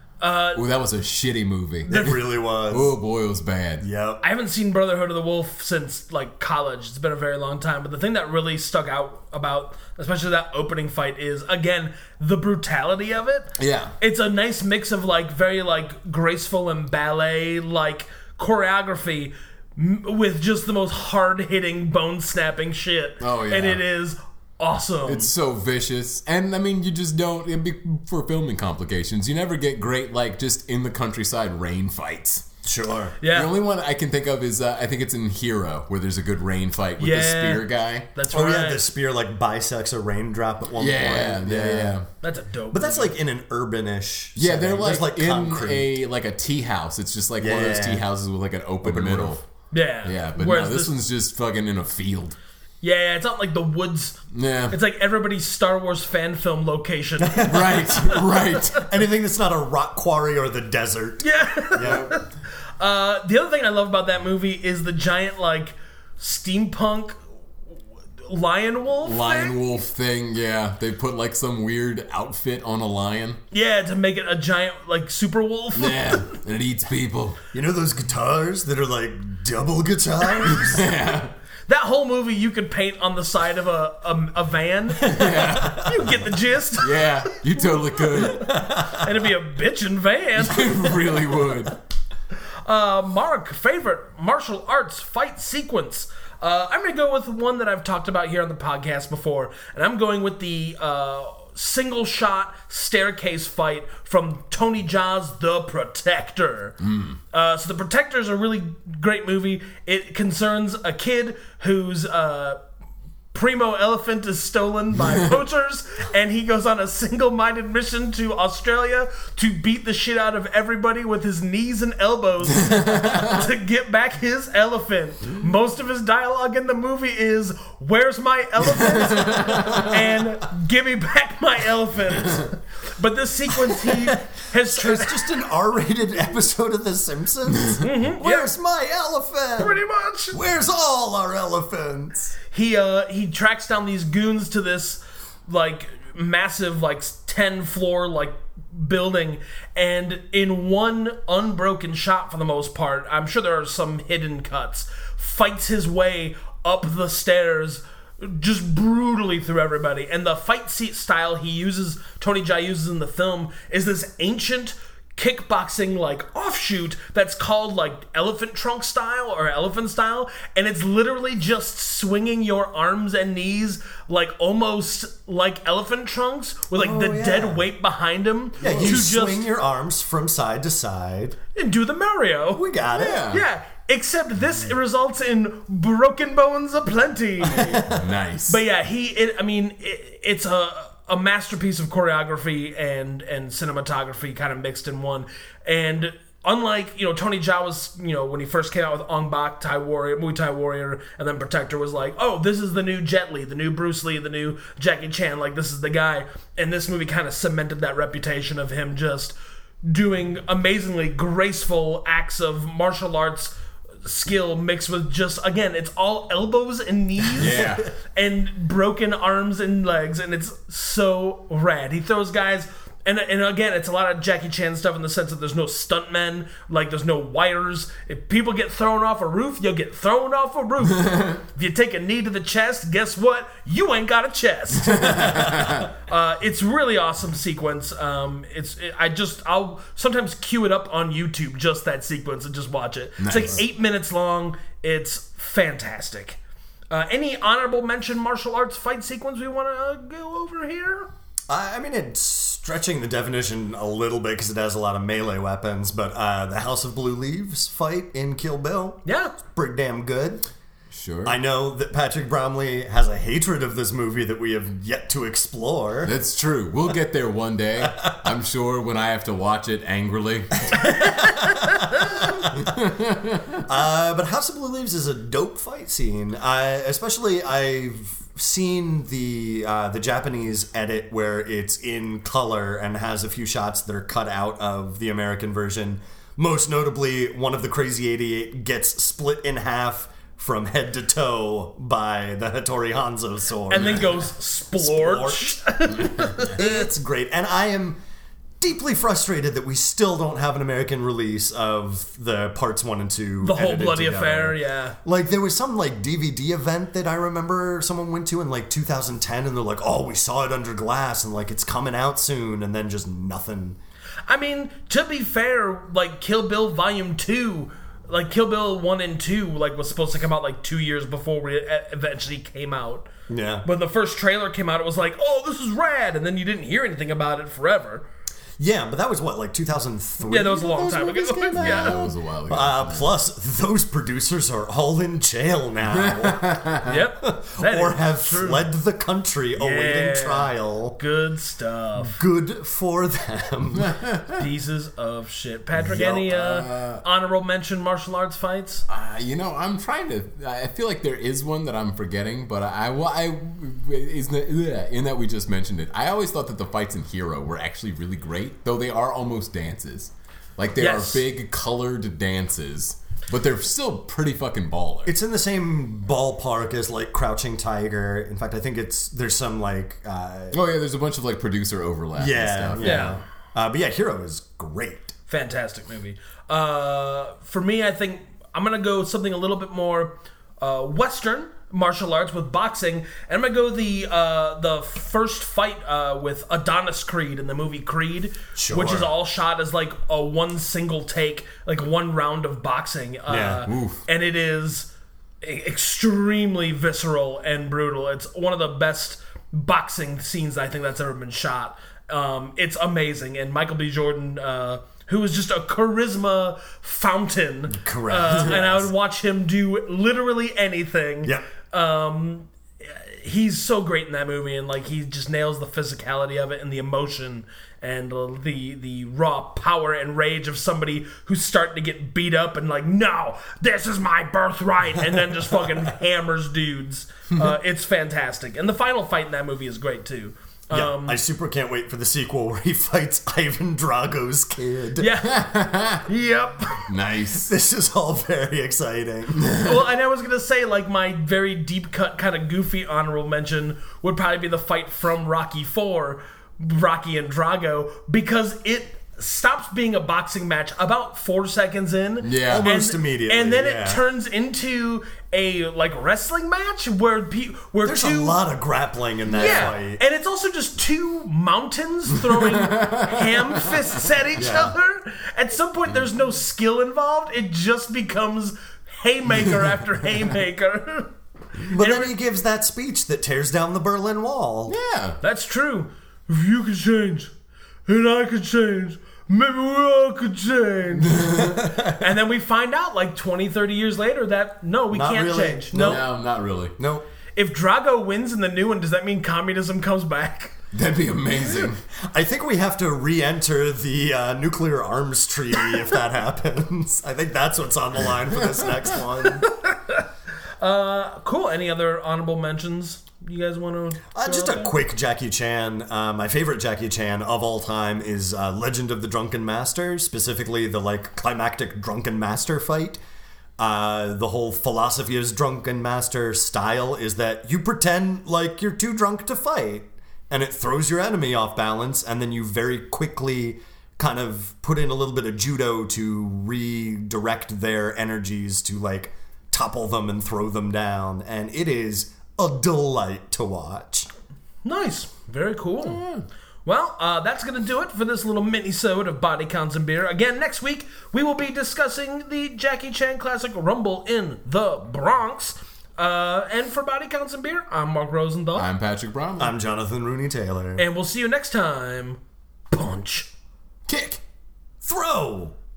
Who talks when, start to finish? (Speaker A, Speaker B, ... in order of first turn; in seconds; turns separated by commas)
Speaker A: 0.2-0.6, Speaker B: 0.5-2.1, Speaker C: 1.9-2.9, Speaker B: 2.7-3.8, Speaker C: 3.8-4.2, Speaker A: 4.2-25.3, Speaker B: 13.6-13.9, Speaker B: 23.2-23.8, Speaker B: 25.1-32.4, Speaker C: 32.6-33.2, Speaker A: 33.2-33.5, Speaker B: 33.3-38.1, Speaker A: 37.0-38.9, Speaker C: 38.3-42.0, Speaker B: 40.7-42.1, Speaker A: 42.2-43.1, Speaker C: 42.7-45.9, Speaker B: 44.4-49.4, Speaker C: 47.4-48.0, Speaker C: 48.8-49.4, Speaker A: 49.7-50.9, Speaker B: 50.0-52.3, Speaker A: 52.8-54.2, Speaker B: 54.3-54.8, Speaker A: 54.7-58.8, Speaker C: 57.2-58.0, Speaker B: 57.4-58.9, Speaker C: 58.9-62.1, Speaker A: 61.2-62.2, Speaker B: 61.8-62.2, Speaker A: 62.8-67.2, Speaker A: 68.2-69.6, Speaker B: 69.0-73.4, Speaker A: 73.5-76.3, Speaker B: 75.7-77.4, Speaker C: 77.5-80.8, Speaker B: 80.4-81.3, Speaker A: 81.7-87.0, Speaker B: 85.0-86.0, Speaker C: 85.2-85.8, Speaker B: 86.8-88.5, Speaker C: 88.3-89.1, Speaker A: 88.9-91.2, Speaker B: 90.4-91.7, Speaker A: 92.6-106.8, Speaker B: 106.9-107.2, Speaker A: 107.3-112.6, Speaker A: 113.3-135.4, Speaker B: 129.2-129.8, Speaker C: 129.5-129.8, Speaker C: 133.6-139.8, Speaker A: 137.8-138.5, Speaker A: 139.6-140.4, Speaker C: 140.3-142.3, Speaker A: 142.5-179.5, Speaker C: 176.7-177.6, Speaker C: 178.6-181.3, Speaker B: 178.6-179.1, Speaker A: 181.5-182.6, Speaker C: 182.5-183.3, Speaker B: 182.9-183.4, Speaker A: 183.3-187.9, Speaker C: 187.4-188.0, Speaker B: 187.9-188.6, Speaker A: 188.5-246.4, Speaker B: 217.4-217.9, Speaker C: 217.4-217.8, Speaker B: 230.9-231.4, Speaker B: 234.8-235.9, Speaker B: 243.2-243.6, Speaker C: 243.3-243.6, Speaker A: 246.9-251.1, Speaker C: 251.5-260.4, Speaker A: 259.0-259.4, Speaker B: 260.9-261.4, Speaker C: 261.2-266.1, Speaker B: 266.0-270.9, Speaker C: 271.0-272.4, Speaker B: 272.6-273.5, Speaker C: 273.6-295.6, Speaker A: 293.7-296.8, Speaker B: 293.8-294.0, Speaker B: 296.0-296.3, Speaker C: 296.4-298.0, Speaker C: 298.6-313.8, Speaker A: 303.4-305.0, Speaker A: 314.3-323.1, Speaker C: 323.3-323.6, Speaker A: 323.6-328.0, Speaker C: 328.6-336.6, Speaker A: 330.2-332.1, Speaker B: 331.5-333.1, Speaker B: 335.9-337.0, Speaker A: 336.8-338.7, Speaker C: 337.2-341.0, Speaker A: 339.6-342.2, Speaker C: 341.9-343.9, Speaker B: 343.8-344.4, Speaker A: 344.4-348.8, Speaker B: 345.8-347.0, Speaker B: 348.9-365.1, Speaker A: 360.8-361.2, Speaker C: 365.0-370.6, Speaker B: 370.5-373.2, Speaker C: 372.1-375.1, Speaker A: 372.8-373.2, Speaker A: 375.3-431.2, Speaker C: 388.6-389.1, Speaker C: 393.3-393.6, Speaker B: 393.6-394.0, Speaker C: 407.7-408.9, Speaker C: 430.7-435.1, Speaker A: 435.0-436.9, Speaker B: 435.4-436.0, Speaker B: 436.9-437.5, Speaker C: 437.4-439.5, Speaker A: 439.6-458.4, Speaker B: 452.2-452.7, Speaker C: 452.4-454.0, Speaker C: 457.8-460.0, Speaker B: 459.4-459.7, Speaker A: 459.4-472.1, Speaker B: 462.3-464.0, Speaker C: 464.4-464.7, Speaker C: 471.6-474.7, Speaker B: 474.7-475.2, Speaker A: 475.2-477.3, Speaker A: 477.9-486.0, Speaker B: 481.0-481.6, Speaker C: 481.4-482.0, Speaker C: 484.9-486.0, Speaker B: 485.7-486.7, Speaker C: 486.8-487.0, Speaker A: 487.3-490.5, Speaker B: 490.7-491.8, Speaker C: 492.1-499.5, Speaker A: 499.6-500.0, Speaker A: 500.6-504.7, Speaker C: 504.1-513.0, Speaker C: 513.6-534.1, Speaker A: 534.6-536.0, Speaker B: 535.8-536.2, Speaker A: 536.6-548.7, Speaker B: 548.5-549.5, Speaker C: 549.4-550.8, Speaker A: 550.8-552.2, Speaker A: 552.7-553.3, Speaker B: 553.9-554.2, Speaker C: 554.8-555.5